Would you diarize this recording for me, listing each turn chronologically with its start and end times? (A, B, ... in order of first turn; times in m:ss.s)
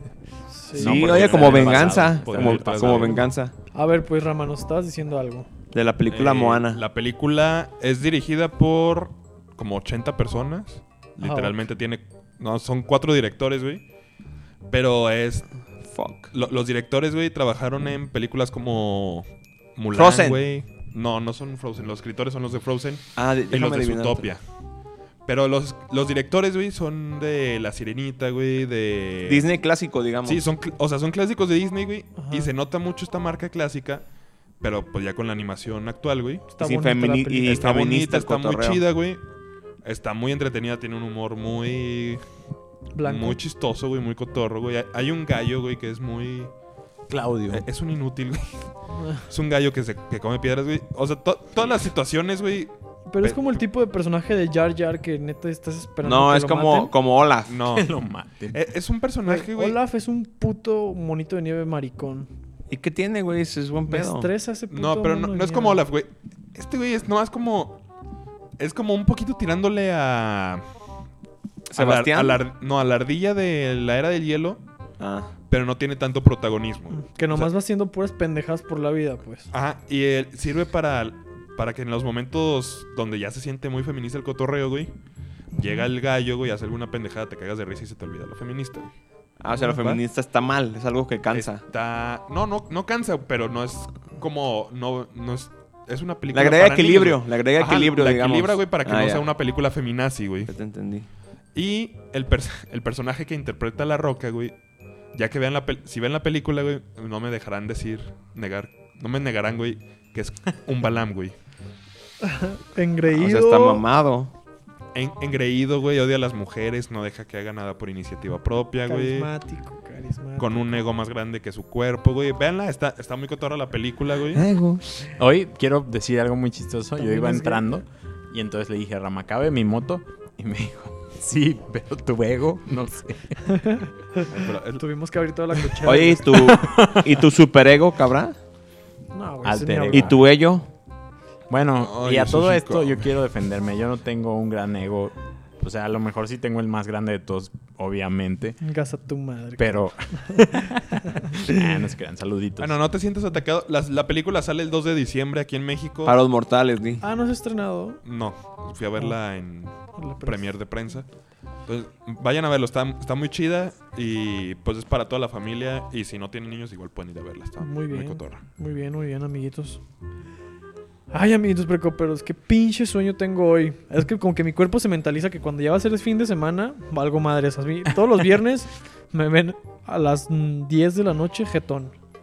0:00.5-0:01.1 A
0:00.7-0:03.3 B
0:00.7-0:03.5 C
0:01.0-0:03.3 D
0:03.7-0:05.5 A
0:05.7-0:06.8 C
0:06.1-0:13.8 D
0:11.2-0:11.6 A
0:14.7-0:15.5 D
0:15.9-0:16.3 C
0:16.3-0:24.4 D
0:19.9-0:20.4 C
0:23.2-0:24.3 C
0:25.3-0:29.5 D
0:29.3-0:30.5 C
0:30.2-0:34.0 D
0:32.2-0:32.5 A
0:34.6-0:36.5 D
0:36.5-0:37.7 A
0:36.6-0:38.8 C
0:37.4-0:39.2 D
0:39.8-0:42.2 D
0:42.9-0:43.4 A
0:43.0-0:46.5 D
0:47.1-0:47.6 B
0:47.5-0:48.7 D
0:49.0-0:49.2 A
0:49.3-0:53.4 D
0:53.1-0:56.9 A
0:56.0-0:57.6 C
0:57.4-0:57.9 D
0:57.7-0:58.6 B
0:58.5-0:59.8 D
0:59.3-1:02.3 A
1:02.7-1:04.3 C
1:03.9-1:05.8 A
1:04.7-1:07.8 D
1:08.6-1:10.6 D
1:11.7-1:12.4 C
1:11.7-1:14.6 D
1:15.0-1:15.3 C
1:15.5-1:17.5 D
1:16.9-1:19.5 A
1:19.5-1:24.9 D
1:25.5-1:25.9 A
1:25.6-1:28.9 D
1:29.4-1:31.6 C
1:29.5-1:30.0 D
1:31.3-1:40.5 D
1:36.3-1:39.3 C
1:40.5-1:41.1 C
1:41.5-1:44.6 D
1:45.1-1:51.4 D
1:52.2-1:53.8 A
1:53.1-1:54.3 C
1:54.9-1:59.3 D
1:58.9-2:00.8 A
2:00.4-2:04.4 D
2:04.3-2:05.0 C
2:05.2-2:13.6 B
2:07.0-2:07.8 A
2:13.5-2:16.6 A
2:14.3-2:14.8 D
2:15.8-2:18.4 C
2:16.3-2:17.1 B
2:19.1-2:20.2 A
2:19.4-2:20.3 B
2:19.9-2:20.7 C
2:21.5-2:28.6 B
2:21.8-2:23.1 D
2:28.6-2:31.8 A
2:29.6-2:32.8 B
2:32.6-2:36.2 D
2:36.0-2:37.0 C
2:37.0-2:38.0 A
2:38.0-2:41.1 D
2:39.7-2:40.6 A
2:41.6-2:48.4 D
2:47.6-2:49.8 A
2:51.1-3:01.9 A